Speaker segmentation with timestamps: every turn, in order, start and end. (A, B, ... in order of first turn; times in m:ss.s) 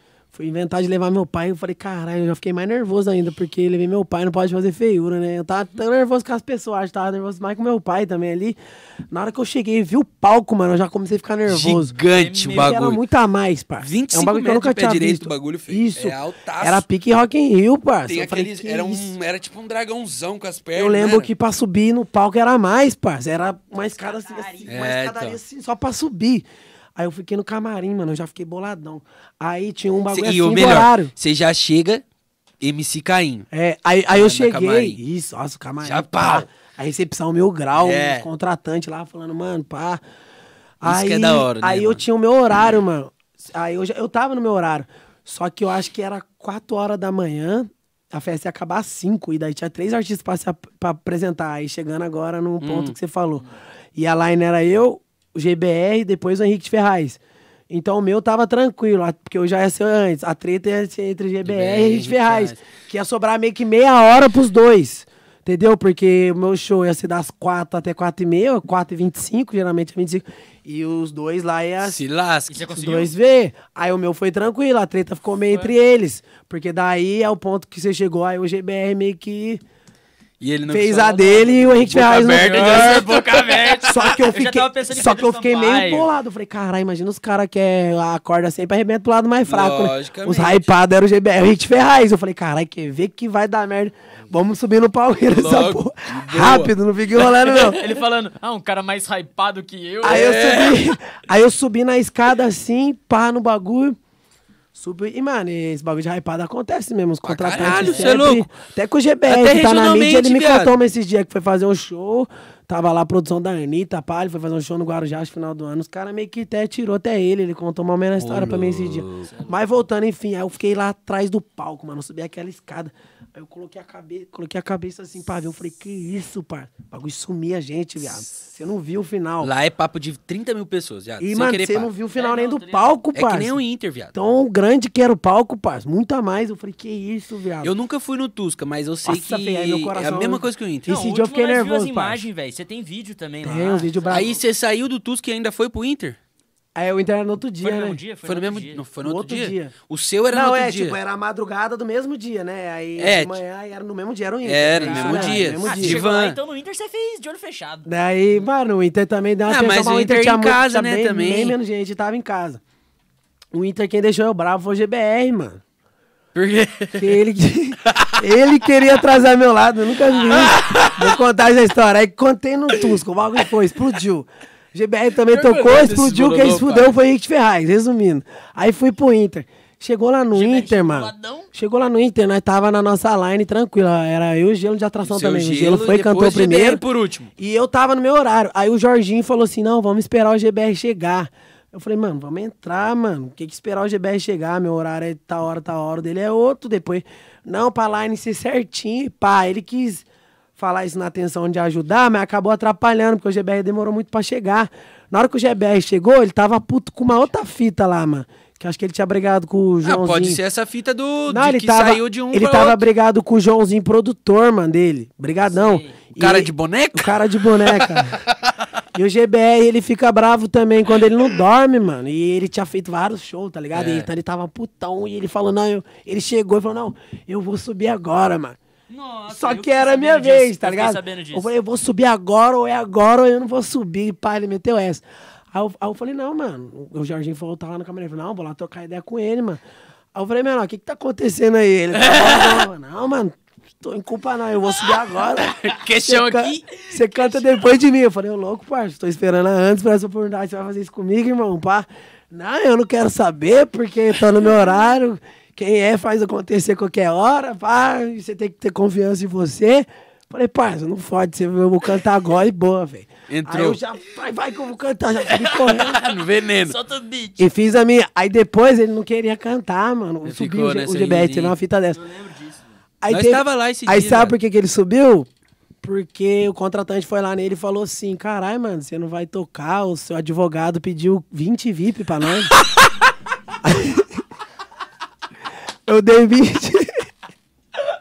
0:00.3-0:08.6 A
0:09.1-0:11.9 A
0:11.4-0:13.0 B
0:12.1-0:12.8 C
0:12.5-0:19.1 A
0:13.8-0:16.8 B
0:18.0-0:21.3 B
0:20.7-0:26.4 A
0:23.8-0:24.8 C
0:24.7-0:25.4 B
0:27.0-0:31.1 A
0:30.1-0:32.0 B
0:32.6-0:33.5 B
0:33.5-0:40.0 A
0:34.1-0:35.0 B
0:35.8-0:36.5 B
0:37.7-0:38.3 B
0:40.8-0:53.4 A
0:40.8-0:42.0 B
0:52.6-0:53.0 B
0:54.0-0:57.2 A
0:57.7-1:12.0 A
1:01.4-1:02.6 B
1:11.8-1:12.7 B
1:12.5-1:13.1 C
1:12.7-1:19.6 A
1:20.4-1:24.1 B
1:20.7-1:23.1 A
1:21.9-1:26.1 C
1:23.8-1:37.8 A
1:29.5-1:30.7 B
1:35.3-1:36.7 B
1:37.2-1:40.4 C
1:40.0-1:44.0 A
1:40.0-1:40.9 B
1:44.7-2:09.5 A
1:47.2-1:48.5 B
1:47.6-1:48.2 C
1:49.3-1:50.8 B
1:58.2-1:59.3 B
1:59.2-1:59.6 C
2:09.4-2:11.9 B
2:11.2-2:13.6 A
2:12.1-2:12.9 C
2:13.1-2:14.1 B
2:14.1-2:17.7 A
2:17.6-2:20.9 B
2:19.0-2:22.2 A
2:20.8-2:24.3 C
2:23.4-2:24.4 A
2:24.1-2:26.2 B
2:26.7-2:28.0 A
2:27.6-2:28.8 C
2:28.2-2:31.0 B
2:29.0-2:29.7 A
2:30.3-2:36.0 A
2:33.0-2:33.4 B
2:34.4-2:36.4 B
2:34.8-2:37.9 C
2:37.8-2:42.6 A
2:39.4-2:41.6 B
2:43.5-2:45.6 A
2:46.3-2:47.2 B
2:47.0-3:06.8 A
2:47.8-2:48.2 B
2:50.2-2:51.2 B
2:52.7-2:53.0 B
2:55.2-2:57.0 B
3:00.3-3:01.5 C
3:05.0-3:07.3 B
3:07.4-3:20.0 A
3:20.6-3:30.4 A
3:29.8-3:32.8 B
3:31.3-3:38.2 A
3:35.4-3:36.0 C
3:36.2-3:38.7 B
3:38.9-3:48.6 A
3:43.7-3:44.1 B
3:48.9-3:51.5 C
3:49.3-3:59.6 A
4:00.1-4:26.0 A
4:01.9-4:02.7 B
4:05.1-4:06.7 B
4:23.3-4:23.8 B
4:25.3-4:26.8 B
4:25.8-4:27.5 C
4:27.4-4:32.0 A
4:30.2-4:31.6 B
4:31.9-4:32.8 C
4:33.0-4:35.3 A
4:33.1-4:34.4 B
4:35.8-4:42.6 A
4:43.6-4:44.2 A
4:45.9-4:47.0 A